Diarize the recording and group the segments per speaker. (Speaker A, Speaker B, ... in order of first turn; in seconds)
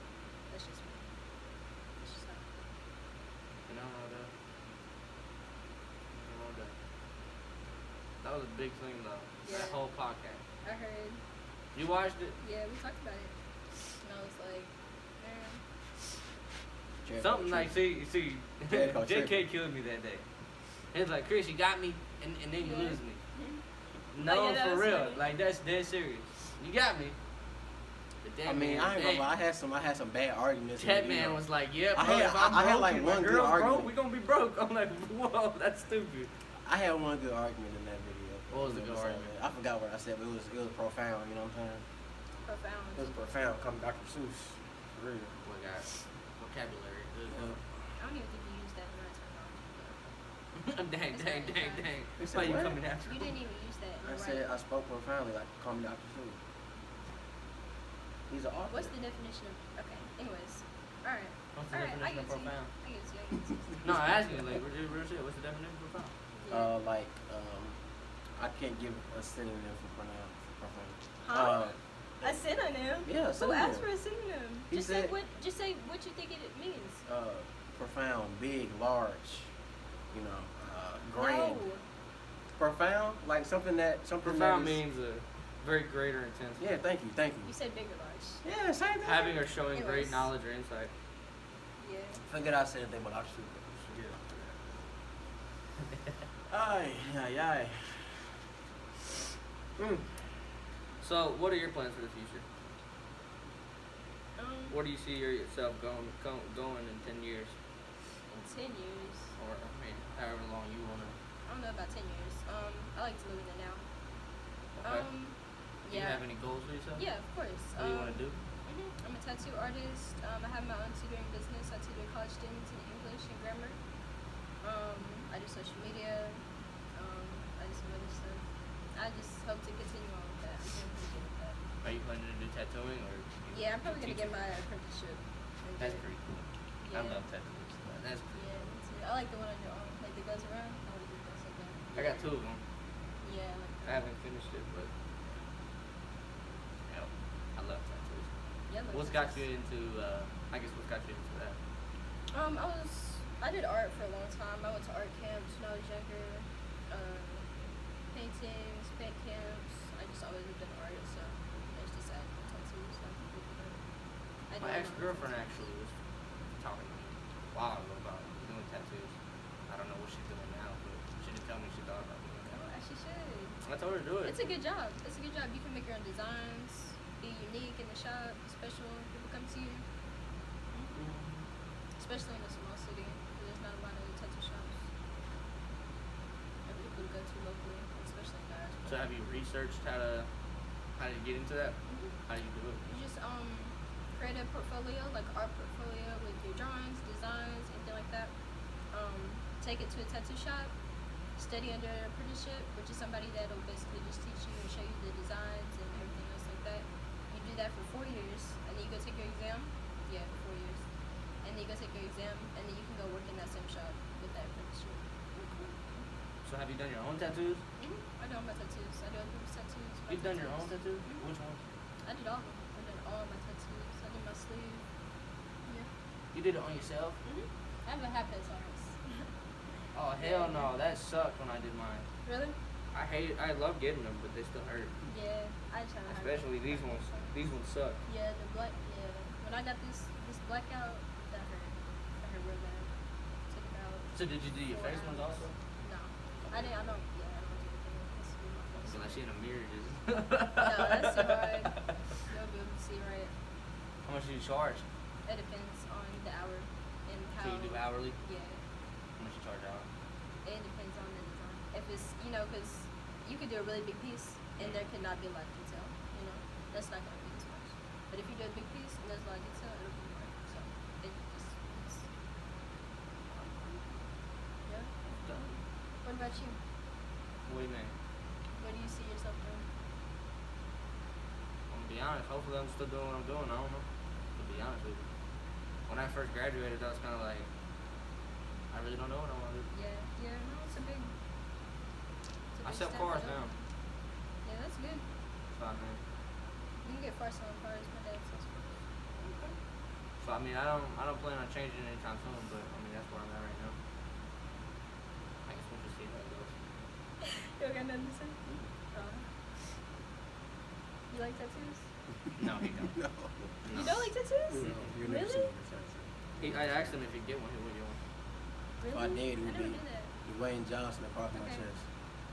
Speaker A: 0.5-1.1, 2.0-2.7, 9.4-9.8, 10.6-11.2, 12.4-13.3, 14.0-15.6, 22.6-23.6, 24.2-25.2, 42.4-43.2, 48.0-50.0, 51.1-51.9, 53.0-54.4, 58.7-64.0, 66.3-66.8, 71.2-77.0, 81.2-81.8, 87.4-88.4, 89.7-90.3, 91.8-92.2, 104.4-104.8, 108.3-109.3, 111.5-113.8, 114.8-116.2, 116.9-123.8, 124.6-126.4, 126.9-131.6, 133.5-136.0, 136.8-137.2, 138.3-142.3, 143.2-144.1, 148.7-149.4, 152.3-157.4, 158.1-163.8, 164.5-165.6, 172.5-173.6, 174.2-179.8, 182.0-184.8, 186.7-189.0, 191.9-192.1, 192.9-198.3, 198.9-200.7, 201.4-210.8, 211.4-216.1, 217.8-221.2, 222.0-224.8, 227.2-229.3, 230.2-230.7, 232.2-232.6, 235.0-237.3, 238.1-242.9, 243.5-244.1, 244.7-249.2, 250.6-253.3, 255.2-258.6, 260.4-272.1, 274.6-274.9, 276.0-276.6, 278.6-279.7, 289.7-291.1, 292.5-293.6, 294.4-295.1, 296.8-298.8, 307.2-308.4, 308.9-309.2, 311.1-311.8, 313.7-315.5, 318.8-320.1, 321.3-321.6
Speaker B: 3.7-4.3, 6.1-6.7, 8.2-10.4, 11.7-12.4, 17.2-20.2, 20.9-23.2, 24.1-27.1, 28.2-29.3, 30.8-36.3, 38.5-39.3, 45.4-47.6, 50.5-53.3, 61.5-62.7, 63.8-66.1, 84.2-86.6, 89.0-90.9, 101.0-102.4, 104.7-107.5, 109.4-111.2, 114.8-115.0, 115.9-117.0, 117.8-118.4, 131.8-134.5, 135.8-138.4, 141.9-142.6, 143.8-144.9, 146.9-148.3, 148.9-151.6, 164.6-165.9, 166.6-169.1, 169.7-172.5, 173.6-174.4, 180.9-181.4, 188.8-190.3, 190.9-192.8, 216.4-217.6, 220.1-221.6, 226.3-227.2, 229.9-232.1, 232.9-234.9, 236.1-238.0, 244.1-245.5, 246.4-246.9, 248.8-251.9, 254.0-254.8, 257.4-258.2, 259.2-259.9, 273.3-273.8, 275.1-275.6, 277.4-277.9, 281.7-285.1, 285.9-287.5, 288.7-289.7, 292.6-293.5, 295.5-296.0, 299.2-299.5, 300.2-303.8, 305.4-306.6, 312.4-313.0, 313.6-314.1, 314.6-314.9, 316.4-318.0
Speaker C: 17.0-17.8, 18.7-19.5, 28.4-33.9, 36.6-41.8, 43.0-45.4, 47.3-47.6, 52.2-52.8, 54.0-56.4, 58.3-58.9, 66.5-67.8, 68.3-72.4, 73.0-73.8, 74.7-75.1, 77.0-79.5, 80.1-81.6, 82.6-84.8, 86.6-87.5, 88.4-89.4, 92.2-94.9, 96.5-98.3, 99.8-100.1, 312.8-313.6, 314.5-316.9, 318.9-321.9